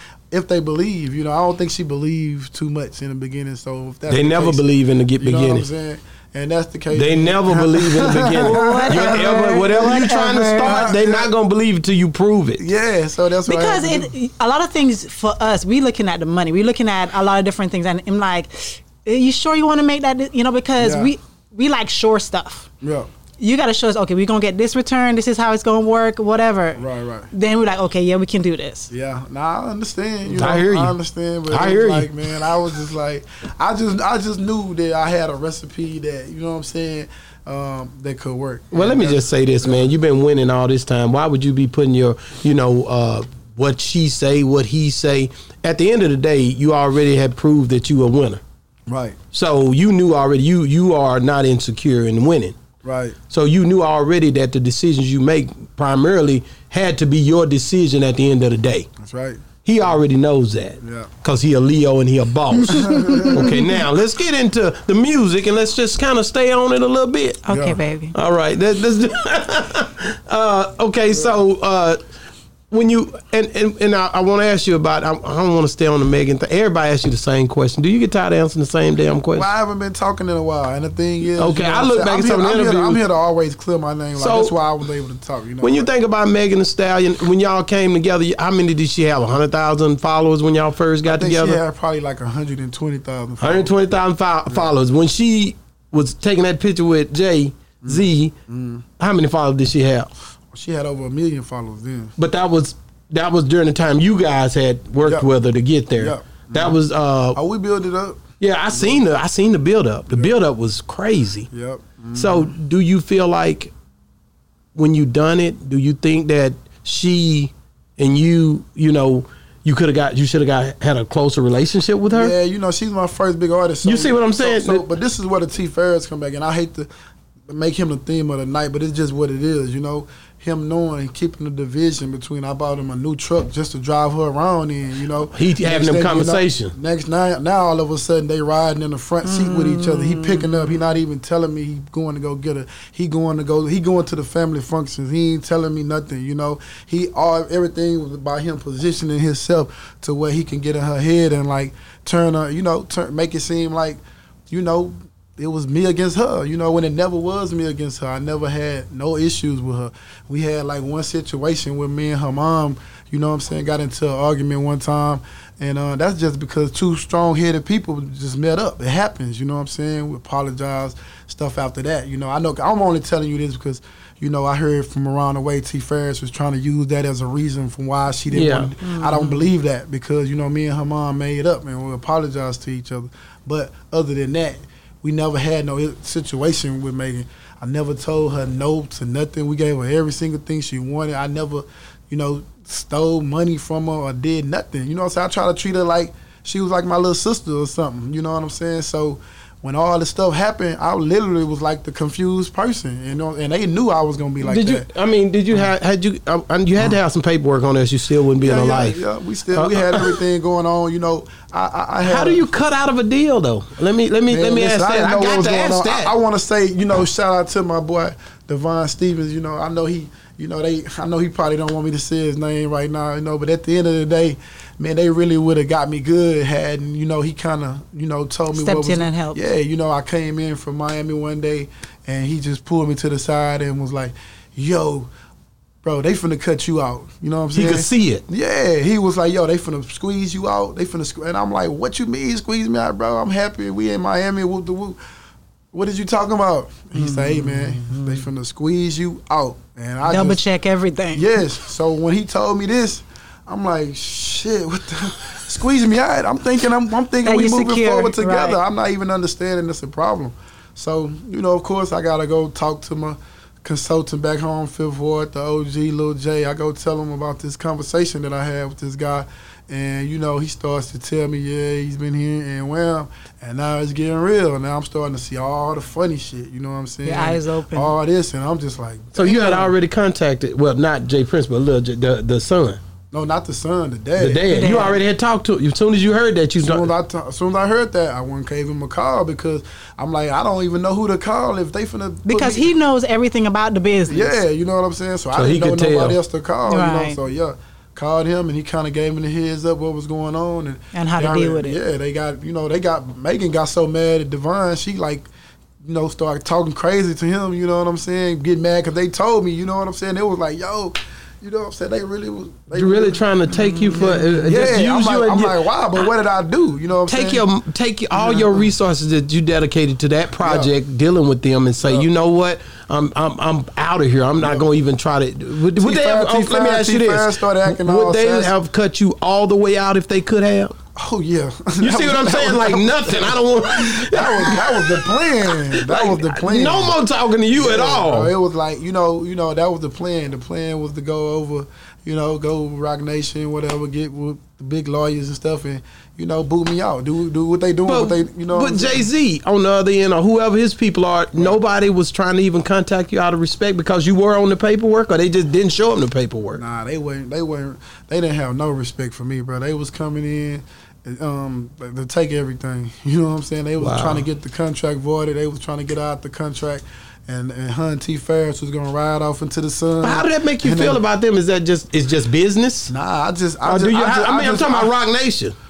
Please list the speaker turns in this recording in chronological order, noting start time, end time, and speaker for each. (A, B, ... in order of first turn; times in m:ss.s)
0:00.3-0:09.6 A
0:04.1-0:05.7 B
0:06.9-0:12.7 B
0:08.3-0:10.8 C
0:10.6-0:11.3 A
0:12.6-0:14.1 A
0:13.5-0:22.7 C
0:20.8-0:21.1 A
0:22.8-0:23.1 A
0:23.4-0:28.9 C
0:26.8-0:27.3 A
0:28.9-0:39.9 A
0:30.3-0:31.0 B
0:31.5-0:32.2 B
0:38.7-0:48.4 B
0:48.9-0:49.2 A
0:49.3-0:52.6 B
0:52.8-0:53.2 A
0:53.3-0:58.9 B
0:59.0-0:59.4 A
0:59.6-1:07.4 B
1:00.8-1:01.1 A
1:02.7-1:03.6 A
1:02.8-1:03.6 C
1:07.5-1:08.2 C
1:07.5-1:07.8 A
1:08.1-1:12.0 B
1:12.7-1:19.5 B
1:19.3-1:25.9 A
1:21.4-1:23.0 B
1:24.2-1:24.5 B
1:25.6-1:31.6 B
1:31.1-1:33.7 A
1:33.4-1:38.3 B
1:37.8-1:38.8 A
1:39.0-1:40.1 B
1:40.5-1:42.1 A
1:42.2-1:47.4 B
1:45.0-1:45.3 A
1:46.0-1:46.8 A
1:47.3-1:49.0 A
1:48.4-1:51.5 B
1:51.5-1:52.5 A
1:52.1-1:53.7 B
1:54.8-2:02.3 B
2:02.1-2:06.9 A
2:03.8-2:04.8 B
2:07.5-3:24.9 A
2:15.3-2:16.7 B
2:19.2-2:20.5 C
2:58.3-2:58.7 B
2:58.8-2:59.5 C
3:24.4-3:29.0 B
3:28.4-3:32.5 A
3:29.5-3:30.2 B
3:32.0-3:36.1 B
3:34.3-3:55.1 A
3:48.6-3:49.4 C
3:55.8-4:05.0 A
3:57.6-3:58.2 B
4:05.7-4:10.4 A
4:07.0-4:08.1 C
4:10.0-4:11.3 C
4:11.1-4:39.7 A
4:17.2-4:18.6 C
4:37.0-4:37.9 C
4:39.2-4:42.8 B
4:43.1-4:44.7 A
4:44.2-4:46.9 B
4:44.5-4:45.0 C
4:46.6-4:52.7 A
4:52.3-4:54.4 C
4:54.1-5:05.3 A
4:55.4-4:56.2 B
4:56.7-4:57.2 C
5:00.9-5:01.8 C
5:05.8-5:13.2 A
5:12.7-5:16.0 B
5:13.6-5:14.2 C
5:13.9-5:17.4 A
5:17.1-5:30.8 B
5:18.1-5:18.7 A
5:20.4-5:20.7 A
5:24.4-5:24.7 A
5:25.8-5:28.5 A
5:31.0-5:37.0 A
5:31.8-5:38.3 B
5:37.6-5:49.1 A
5:47.9-5:56.6 B
5:56.5-6:11.0 A
6:03.8-6:04.2 B
6:10.0-6:12.9 B
6:12.9-6:14.9 A
6:13.6-6:15.6 B